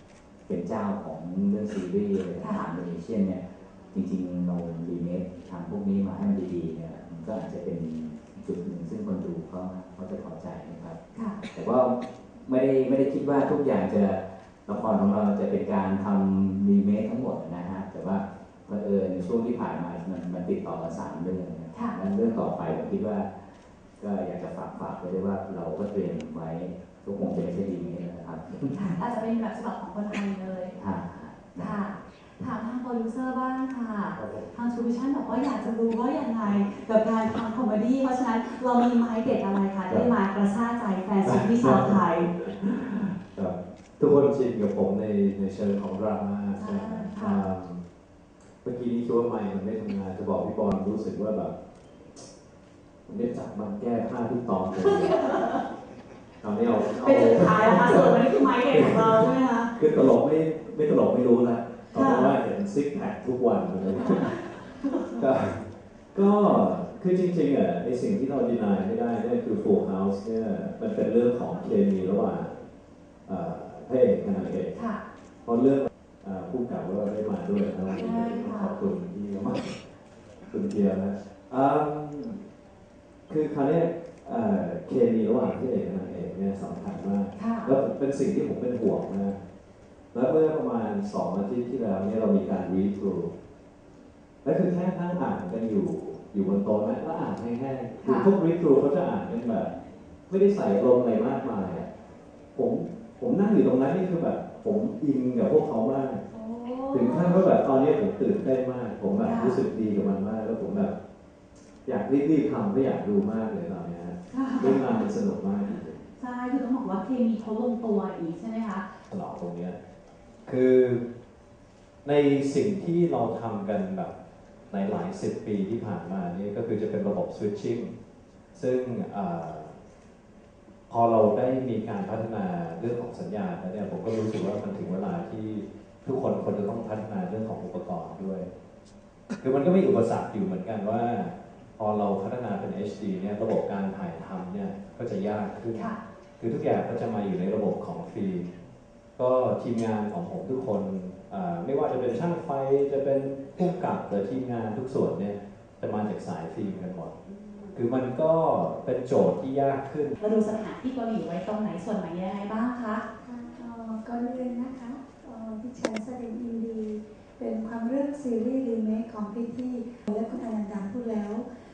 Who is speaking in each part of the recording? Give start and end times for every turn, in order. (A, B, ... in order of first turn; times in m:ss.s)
0:00.5-0:29.0 A
0:02.4-0:02.6 B
0:21.7-0:22.0 B
0:28.7-0:30.7 B
0:30.8-0:31.8 A
0:31.6-0:42.3 B
0:34.1-0:34.5 C
0:39.9-0:40.2 A
0:41.2-0:47.8 C
0:46.5-0:47.4 B
0:48.6-0:51.5 C
0:53.1-0:55.2 C
0:55.1-0:55.6 B
0:56.4-1:04.4 C
0:57.0-0:59.7 B
1:01.9-1:02.4 B
1:04.8-1:05.2 B
1:05.2-1:12.6 C
1:13.3-1:14.8 C
1:14.7-1:15.0 B
1:15.4-1:19.7 C
1:17.9-1:18.8 B
1:20.5-1:22.4 C
1:23.3-1:29.4 C
1:27.3-1:27.7 B
1:30.1-1:33.3 C
1:34.4-1:39.7 C
1:38.0-1:38.3 B
1:40.3-1:41.9 C
1:42.5-1:46.2 C
1:46.3-1:47.4 B
1:46.9-1:50.9 C
1:49.2-1:49.6 B
1:51.8-1:56.0 C
1:54.3-1:55.1 B
1:55.6-1:58.9 B
1:59.1-1:59.8 C
2:00.4-2:01.0 C
2:02.0-2:04.1 C
2:04.7-2:07.9 C
2:08.5-2:09.7 C
2:10.9-2:18.5 C
2:19.4-2:28.5 C
2:29.2-2:37.1 C
2:37.4-2:37.7 B
2:37.7-2:40.1 C
2:40.2-2:43.0 B
2:43.5-2:51.4 D